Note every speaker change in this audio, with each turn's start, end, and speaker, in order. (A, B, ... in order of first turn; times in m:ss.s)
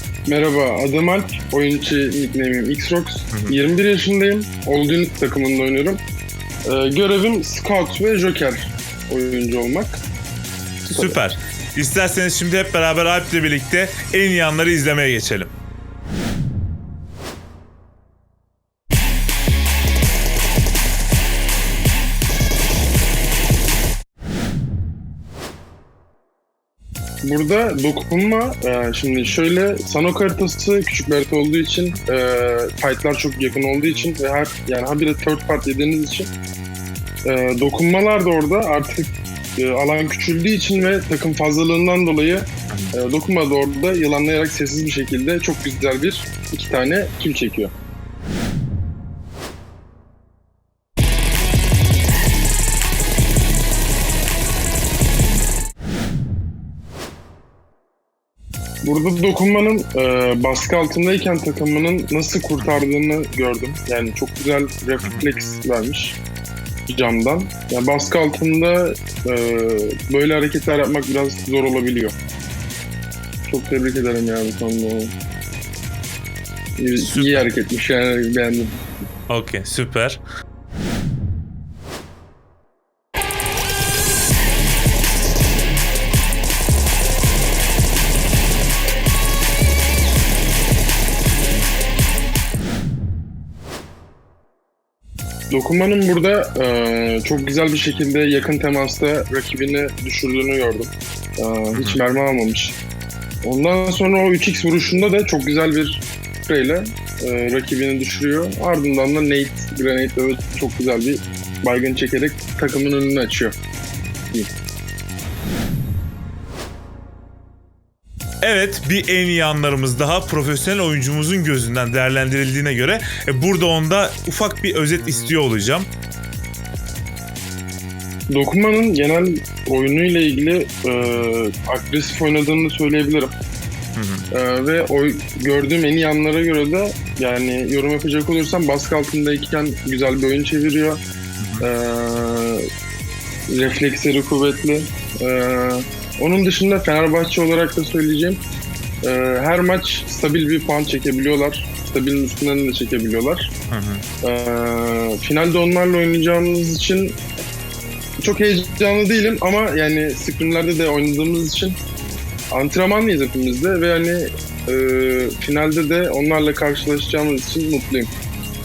0:00.3-0:06.0 A
0:03.3-0:03.6 B
0:06.7-0:10.0 A
0:10.8-0:11.2 A
0:10.9-0:15.5 B
0:27.2-0:36.3 A
0:37.2-0:47.7 A
0:58.8-1:06.2 A
1:06.9-1:12.1 A
1:13.5-1:15.1 A
1:16.8-1:18.8 A
1:17.0-1:17.5 B
1:19.3-1:20.2 B
1:35.5-1:42.8 A
1:41.7-1:42.0 B
1:43.4-1:53.6 A
1:58.4-2:05.9 B
2:08.3-2:13.3 A
2:11.0-2:11.3 B
2:14.0-2:14.2 B
2:14.3-2:21.0 A
2:21.4-2:21.6 B
2:21.6-2:22.7 A
2:23.5-2:28.4 A
2:29.0-2:33.5 A
2:33.7-2:34.0 B
2:34.2-2:37.2 A
2:38.2-2:41.8 A
2:42.5-2:48.1 A